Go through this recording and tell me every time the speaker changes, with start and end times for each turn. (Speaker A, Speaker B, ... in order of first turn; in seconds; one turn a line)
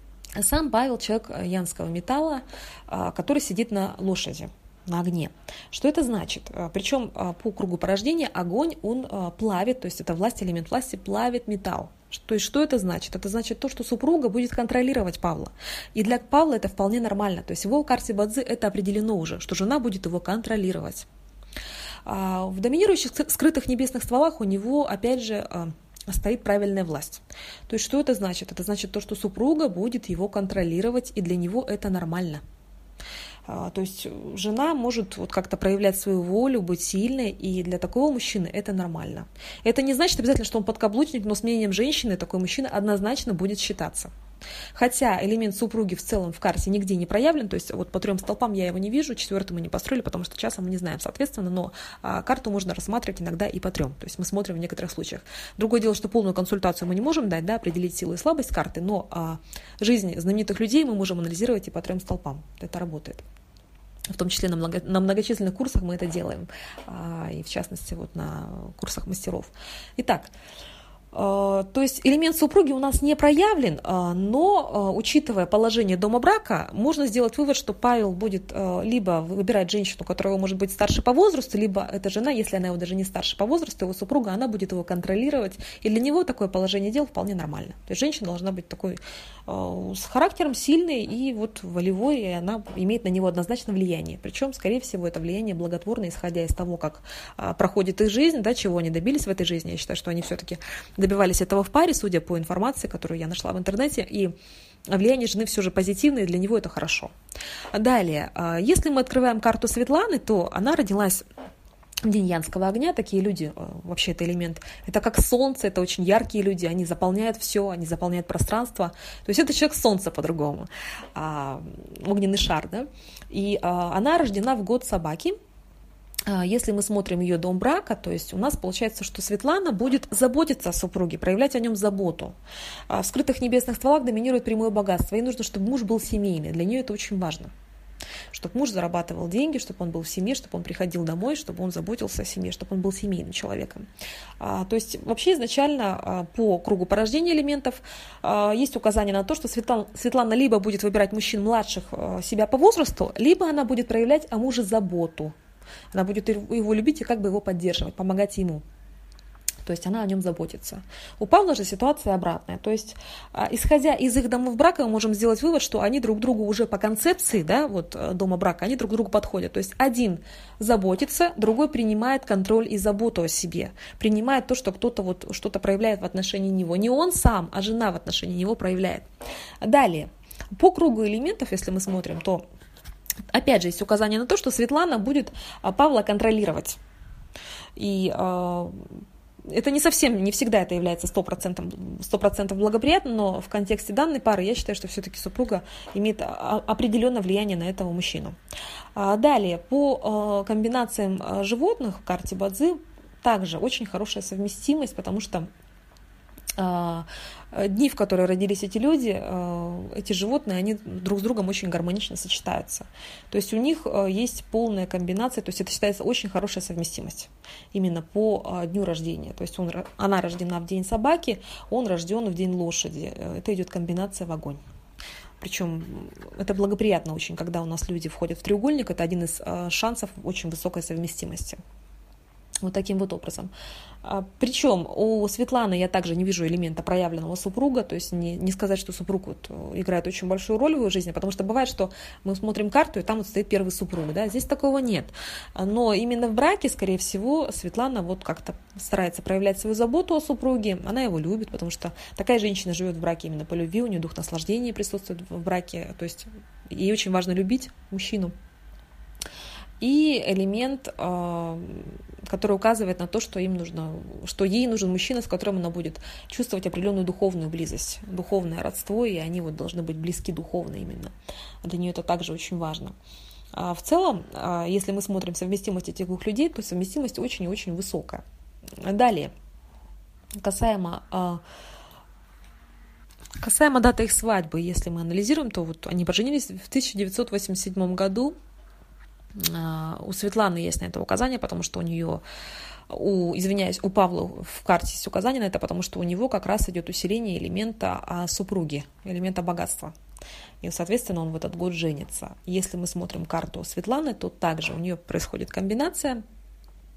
Speaker A: 0.4-21.1
Speaker A: 22.1-32.4
Speaker A: 33.5-44.1
Speaker A: 44.7-63.2
Speaker A: 64.1-70.3
Speaker A: 71.1-104.3
Speaker A: 104.9-107.1
Speaker A: 107.7-111.3
Speaker A: 112.0-125.4
Speaker A: 126.3-132.4
Speaker A: 132.9-137.5
Speaker A: 138.3-143.8
Speaker A: 144.4-155.3
Speaker A: 155.9-158.6
Speaker A: 159.6-179.1
Speaker A: 179.6-182.4
Speaker A: 183.3-186.8
Speaker A: 187.8-188.9
Speaker A: 189.5-198.4
Speaker A: 198.9-205.5
Speaker A: 206.6-224.6
Speaker A: 225.4-231.6
Speaker A: 232.6-233.5
Speaker A: 234.0-258.3
Speaker A: 259.8-273.0
Speaker A: 273.5-278.2
Speaker A: 278.8-279.3
Speaker A: 280.4-281.4
Speaker A: 283.4-288.4
Speaker A: 289.4-292.2
Speaker A: 292.9-299.9
Speaker A: 300.6-306.2